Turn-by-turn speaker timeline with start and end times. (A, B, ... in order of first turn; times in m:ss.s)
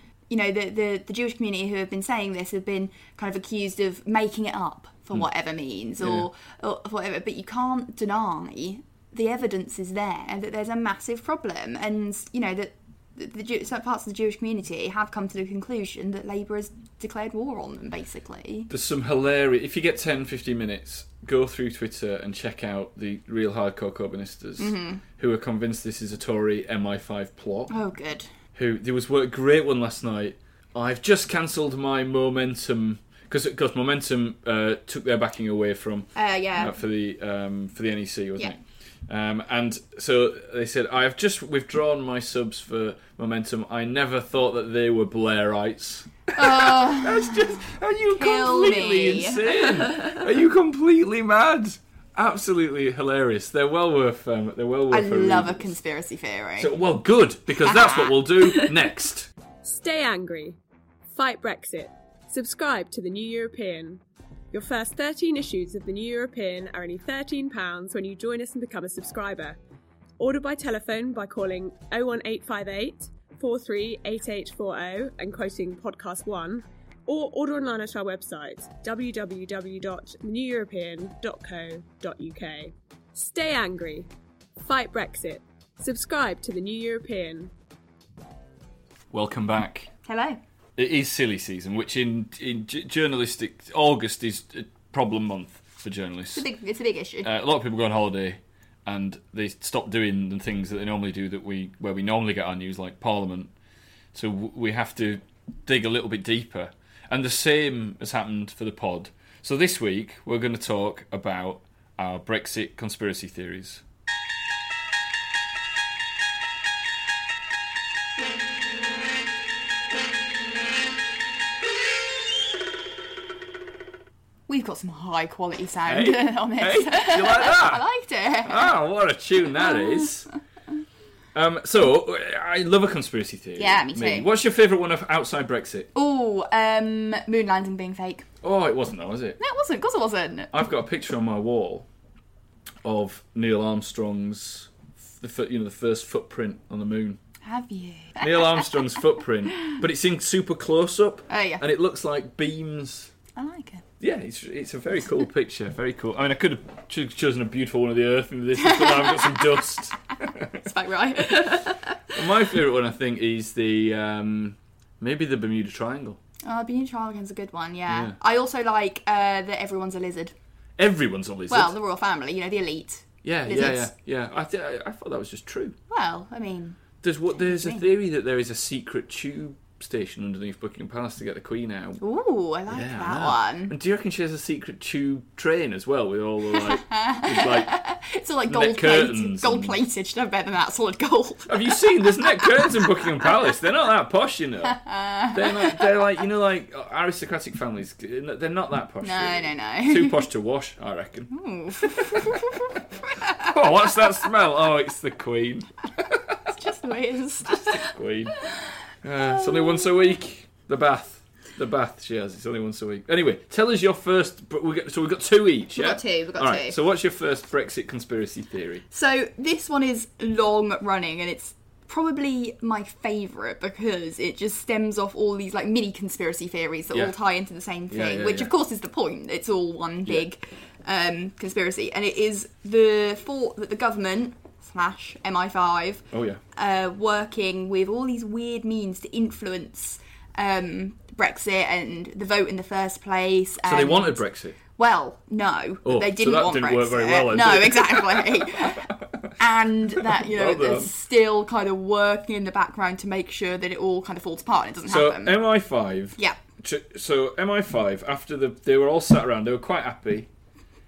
0:00.3-0:18.7 A
0:06.0-0:06.3 B
0:18.7-0:27.7 B
0:24.6-0:25.0 A
0:27.7-0:28.3 A
0:28.5-0:55.8 B
0:36.1-0:36.8 A
0:46.4-0:47.6 A
0:48.1-0:50.2 A
0:54.9-0:56.7 A
0:56.6-0:59.3 B
0:57.6-0:58.7 A
0:59.6-1:00.6 C
1:01.1-1:04.0 C
1:04.5-1:09.6 C
1:10.2-1:27.5 C
1:29.1-1:29.9 B
1:30.1-1:30.4 A
1:30.8-1:36.4 B
1:36.4-1:37.3 A
1:37.2-1:43.5 B
1:44.1-1:53.8 B
2:04.5-2:08.7 A
2:05.9-2:07.8 B
2:08.4-2:10.3 B
2:09.6-2:10.1 A
2:11.4-2:15.9 B
2:13.6-2:14.3 A
2:15.9-2:18.2 A
2:18.4-2:19.4 B
2:19.4-2:20.5 A
2:20.5-2:21.9 B
2:22.8-2:27.2 B
2:27.4-2:28.7 A
2:28.2-2:33.1 B
2:31.3-2:31.6 A
2:33.4-2:33.8 A
2:34.0-2:40.7 B
2:38.6-2:39.7 A
2:40.6-2:42.0 A
2:42.1-2:46.2 B
2:46.4-2:50.3 A
2:47.9-2:48.1 B
2:50.8-2:51.8 B
2:51.5-2:53.9 A
2:53.2-2:55.8 B
2:55.9-2:56.8 A
2:57.0-3:02.0 B
2:57.4-2:57.8 A
3:02.0-3:03.7 A
3:02.7-3:07.7 B
3:06.5-3:13.3 A
3:08.5-3:09.8 B
3:11.5-3:22.6 B
3:14.6-3:15.8 A
3:19.0-3:20.2 A
3:21.3-3:23.5 A
3:23.4-3:26.5 B
3:26.5-3:27.9 A
3:27.4-3:28.4 B
3:28.4-3:28.7 A
3:29.0-3:38.8 B
3:29.2-3:30.1 A
3:35.7-3:36.8 A
3:38.9-3:56.0 A
3:47.9-3:48.5 B
3:56.1-3:56.4 B
3:56.6-4:04.2 A
4:03.6-4:04.6 B
4:04.7-4:15.4 A
4:05.8-4:08.9 B
4:10.0-4:10.9 B
4:14.9-4:20.3 B